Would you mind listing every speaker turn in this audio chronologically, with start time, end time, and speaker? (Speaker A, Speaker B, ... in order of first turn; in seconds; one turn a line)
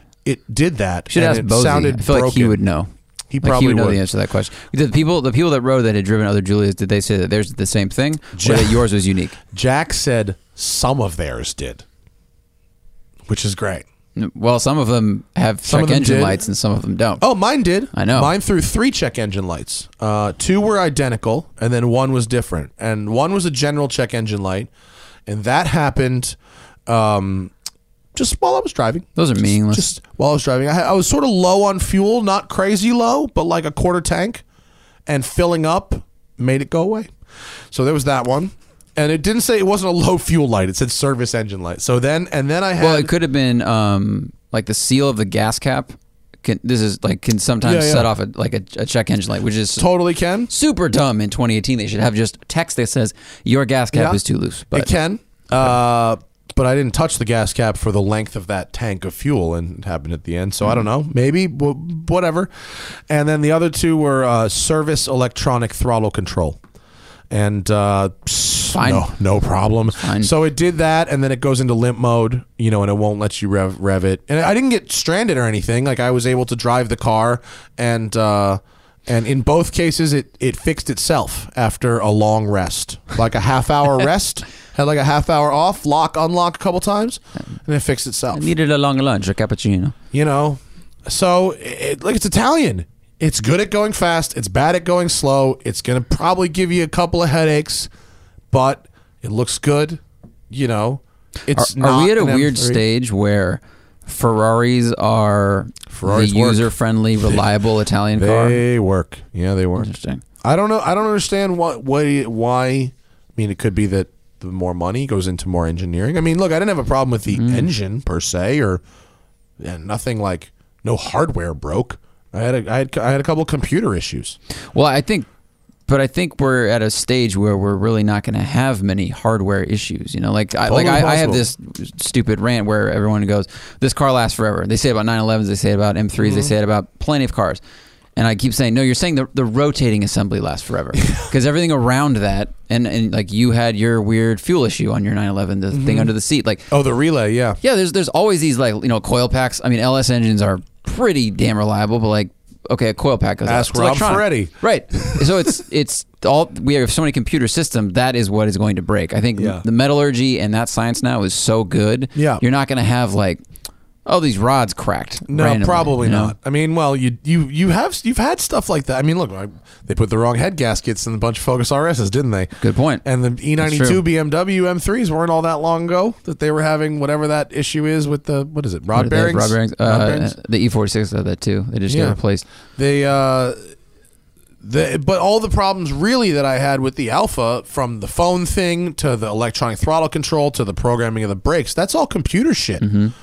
Speaker A: 0.2-2.6
Speaker B: 1.1-2.9
Speaker A: 3.3-4.0
Speaker B: 3.4-9.4
Speaker A: 8.3-8.8
Speaker A: 9.5-11.8
Speaker A: 13.3-13.8
Speaker B: 14.2-17.2
Speaker A: 15.7-16.4
Speaker A: 17.2-24.7
Speaker B: 17.9-18.3
Speaker A: 25.3-27.5
Speaker A: 28.1-34.4
Speaker B: 29.2-29.9
Speaker A: 35.1-37.1
Speaker A: 37.7-43.1
Speaker B: 42.8-49.9
Speaker A: 47.6-48.1
Speaker A: 49.8-50.5
Speaker B: 50.5-54.9
Speaker A: 53.9-54.2
Speaker A: 54.7-66.6
Speaker A: 67.3-88.5
Speaker B: 68.7-69.1
Speaker B: 70.0-70.3
Speaker B: 88.3-90.0
Speaker A: 90.1-97.9
Speaker A: 98.5-102.8
Speaker B: 101.5-108.6
Speaker A: 105.9-107.4
Speaker A: 108.2-109.9
Speaker B: 109.8-110.2
Speaker A: 110.4-118.8
Speaker B: 117.3-117.7
Speaker A: 119.6-124.4
Speaker B: 124.7-125.3
Speaker B: 125.9-137.6
Speaker A: 130.7-131.4
Speaker A: 136.2-136.5
Speaker B: 138.2-146.7
Speaker A: 145.7-146.1
Speaker A: 146.7-147.6
Speaker B: 147.6-163.4
Speaker A: 153.5-155.3
Speaker A: 159.4-159.6
Speaker A: 162.2-162.4
Speaker B: 164.1-166.3
Speaker A: 165.3-180.3
Speaker B: 172.6-173.0
Speaker B: 173.6-174.0
Speaker B: 178.9-182.4
Speaker A: 181.9-182.2
Speaker A: 182.8-183.7
Speaker A: 184.6-192.9
Speaker B: 192.8-193.1